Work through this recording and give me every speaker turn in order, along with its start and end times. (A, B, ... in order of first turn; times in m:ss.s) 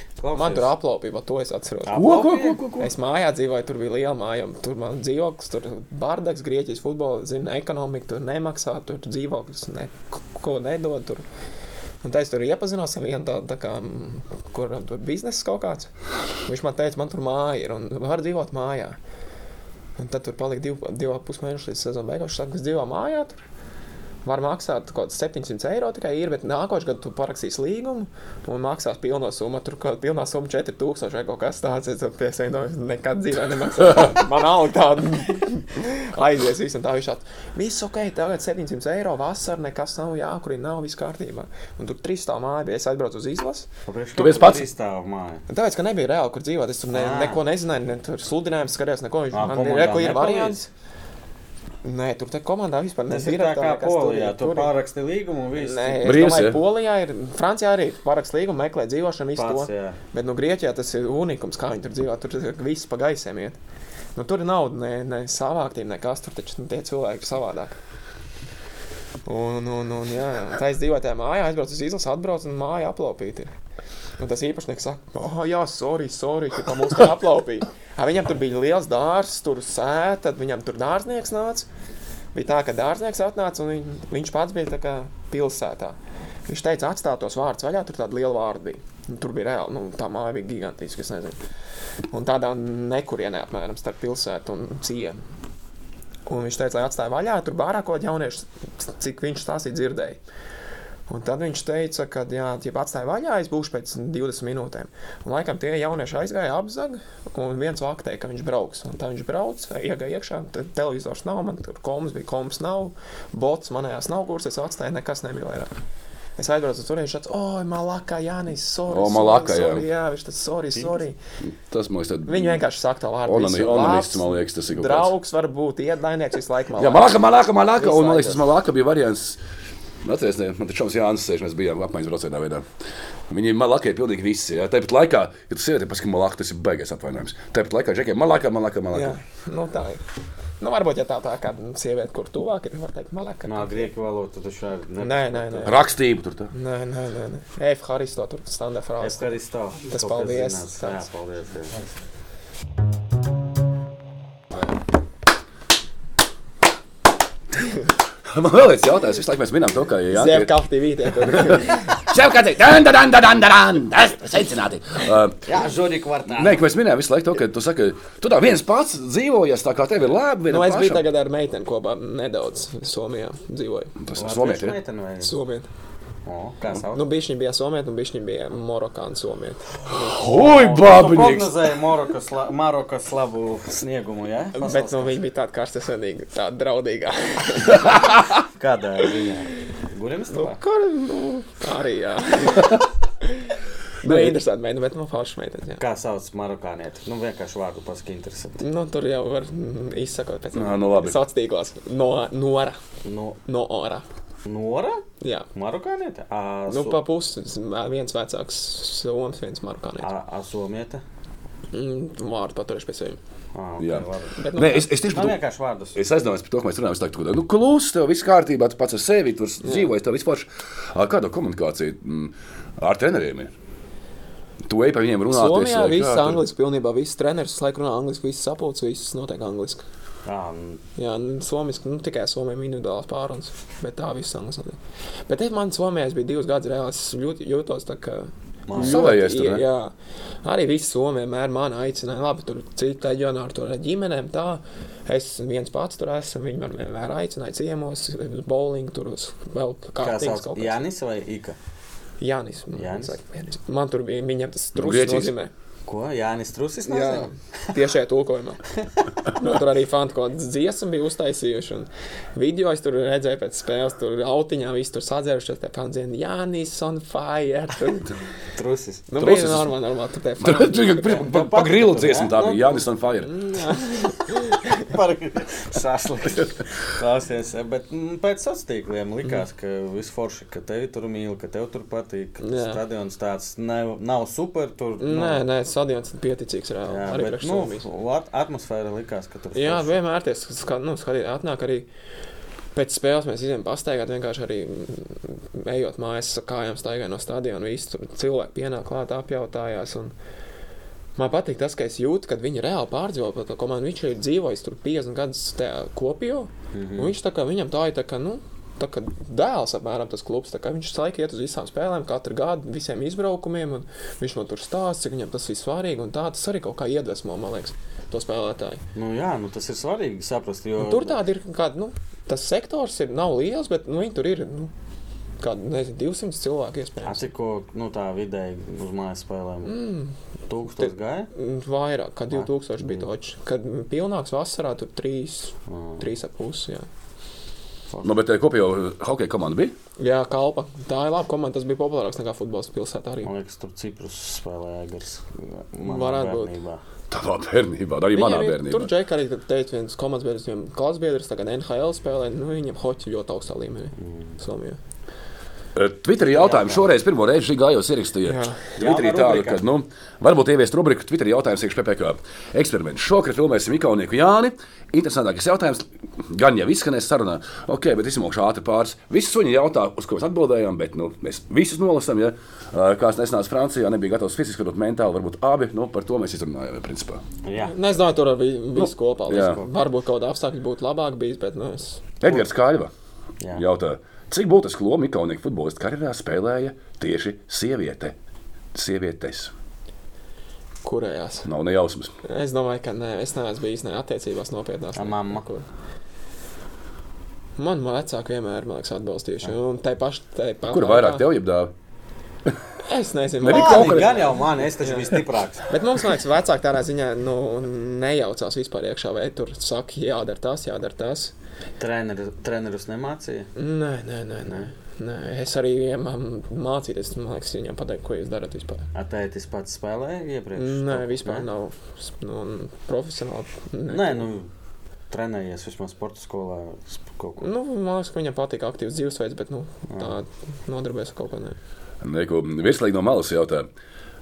0:00.2-0:00.7 A
0:00.3-0:02.1 B
0:01.8-0:02.7 A
0:01.9-0:02.9 C
0:02.8-0:11.2 B
0:12.0-0:15.9 B
0:16.5-0:19.0 B
0:20.0-0:23.4 B
0:24.2-0:43.7 B
0:43.9-0:45.4 A
0:44.2-0:44.7 C
0:45.5-0:50.7 B
0:46.9-0:47.4 A
0:49.3-0:50.6 A
0:51.8-0:54.7 B
0:53.1-0:56.1 A
0:55.6-1:03.6 B
0:56.0-0:56.6 C
0:59.4-1:00.0 A
1:04.2-1:07.8 B
1:09.3-1:13.5 B
1:14.2-1:21.7 B
1:22.3-1:31.4 B
1:32.1-1:35.2 B
1:36.3-1:40.2 B
1:41.1-1:55.7 B
1:56.4-2:01.2 B
1:58.9-1:59.9 C
2:01.4-2:02.6 C
2:02.3-2:07.2 B
2:03.3-2:05.1 C
2:06.8-2:09.4 C
2:07.8-2:08.4 B
2:10.0-2:12.6 C
2:13.3-2:19.2 C
2:18.9-2:20.0 B
2:20.6-2:23.9 B
2:23.4-2:25.8 A
2:25.0-2:25.8 B
2:25.6-2:26.5 C
2:26.5-2:29.4 B
2:29.0-2:31.8 A
2:29.9-2:31.0 B
2:38.3-2:40.6 C
2:40.1-2:42.0 B
2:41.2-2:45.4 C
2:45.5-2:46.7 A
2:46.3-2:51.0 C
2:50.5-2:53.9 B
2:54.0-2:54.8 C
2:54.1-2:55.4 A
2:55.2-2:55.7 B
2:56.3-2:57.0 A
2:56.9-3:00.1 B
2:59.9-3:01.7 C
3:00.2-3:05.2 A
3:04.6-3:08.0 B
3:08.5-3:10.6 A
3:10.3-3:15.8 B
3:14.0-3:14.4 C
3:15.8-3:18.6 A
3:18.6-3:22.8 B
3:20.5-3:21.2 C
3:23.0-3:23.4 A
3:23.4-3:24.1 B
3:24.4-3:27.0 A
3:25.2-3:25.5 B
3:26.7-3:30.1 B
3:30.0-3:31.0 A
3:31.7-3:33.2 B
3:33.5-3:34.4 A
3:33.8-3:35.4 C
3:34.3-3:34.9 B
3:35.1-3:36.0 A
3:36.0-3:43.5 C
3:39.6-3:39.9 B
3:44.6-3:46.4 C
3:45.3-3:49.8 B
3:50.3-3:50.8 A
3:51.0-4:10.8 B
3:58.7-3:59.1 A
3:58.8-3:59.6 C
4:10.0-4:11.6 A
4:12.2-4:15.5 B
4:12.7-4:13.2 A
4:14.8-4:15.3 C
4:15.9-4:17.8 A
4:16.9-4:18.6 B
4:19.3-4:28.2 B
4:28.6-4:29.1 A
4:29.1-4:31.2 B
4:29.2-4:29.7 C
4:30.4-4:33.4 C
4:31.0-4:32.9 A
4:33.2-4:34.9 B
4:34.7-4:45.4 A
4:42.4-4:42.8 B
4:45.0-4:47.9 B
4:46.9-4:50.0 A
4:49.5-4:51.9 B
4:52.7-5:00.1 B
5:01.2-5:18.8 B
5:06.7-5:07.2 A
5:19.0-5:21.2 A
5:20.8-5:24.7 B
5:25.4-5:27.3 B
5:27.0-5:29.9 A
5:29.7-5:30.1 B
5:30.5-5:31.3 A
5:30.8-5:36.9 B
5:32.3-5:33.1 A
5:35.7-5:36.1 A
5:38.0-5:39.7 C
5:40.0-5:43.3 B
5:43.2-5:46.8 A
5:45.8-5:46.5 B
5:47.1-5:48.9 C
5:48.1-5:54.8 B
5:54.0-5:54.4 A
5:55.8-6:17.2 C
5:56.2-5:56.9 A
5:58.2-5:58.6 B
5:58.8-5:59.6 A
6:17.4-6:17.8 A
6:17.6-6:22.2 B
6:18.8-6:19.6 C
6:19.4-6:19.7 A
6:22.2-6:22.9 C
6:23.6-6:28.2 C
6:28.7-6:29.5 C
6:30.8-6:31.5 B
6:31.5-6:32.1 C
6:32.2-6:35.7 B
6:35.0-6:35.4 A
6:37.6-6:41.3 B
6:40.7-6:41.7 C
6:42.8-6:51.3 B
6:43.4-6:44.3 C
6:43.4-6:45.7 A
6:51.8-6:53.5 A
6:53.6-6:58.9 B
6:54.4-6:54.7 A
6:58.9-7:01.5 A
7:00.6-7:04.3 B
7:03.9-7:04.5 A
7:05.1-7:07.5 A
7:07.4-7:11.6 B
7:09.9-7:10.2 A
7:12.0-7:13.7 C